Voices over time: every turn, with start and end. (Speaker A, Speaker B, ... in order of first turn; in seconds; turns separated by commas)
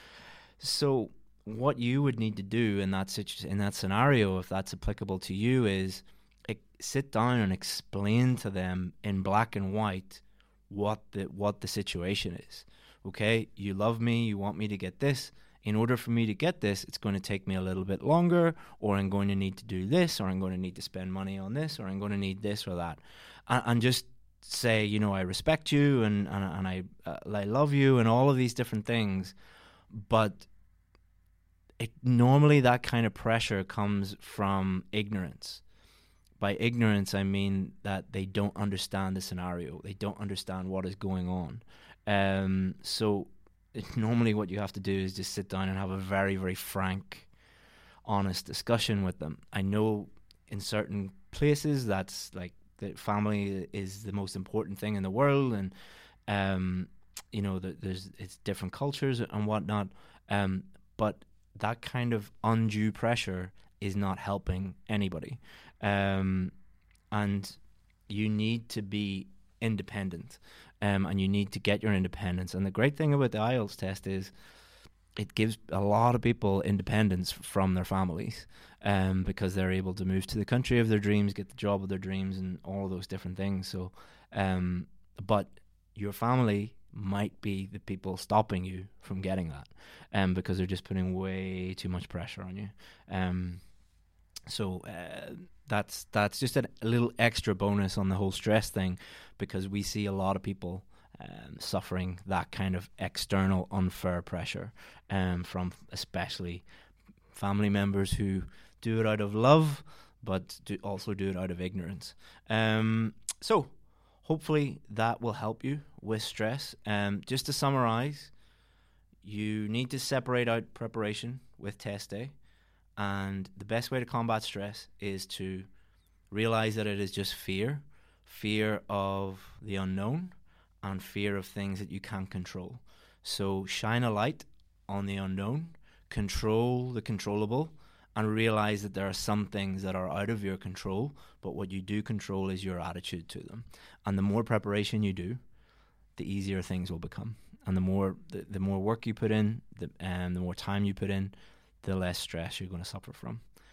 Speaker A: 0.6-29.3, Speaker A: 29.9-30.5, Speaker A: 31.8-35.6, Speaker A: 36.4-47.3, Speaker A: 48.0-55.7, Speaker A: 56.3-66.5, Speaker A: 67.1-74.3, Speaker A: 75.2-93.6, Speaker A: 94.5-106.6, Speaker A: 107.3-118.3, Speaker A: 119.2-122.3, Speaker A: 123.0-125.7, Speaker A: 126.3-145.4, Speaker A: 146.2-153.4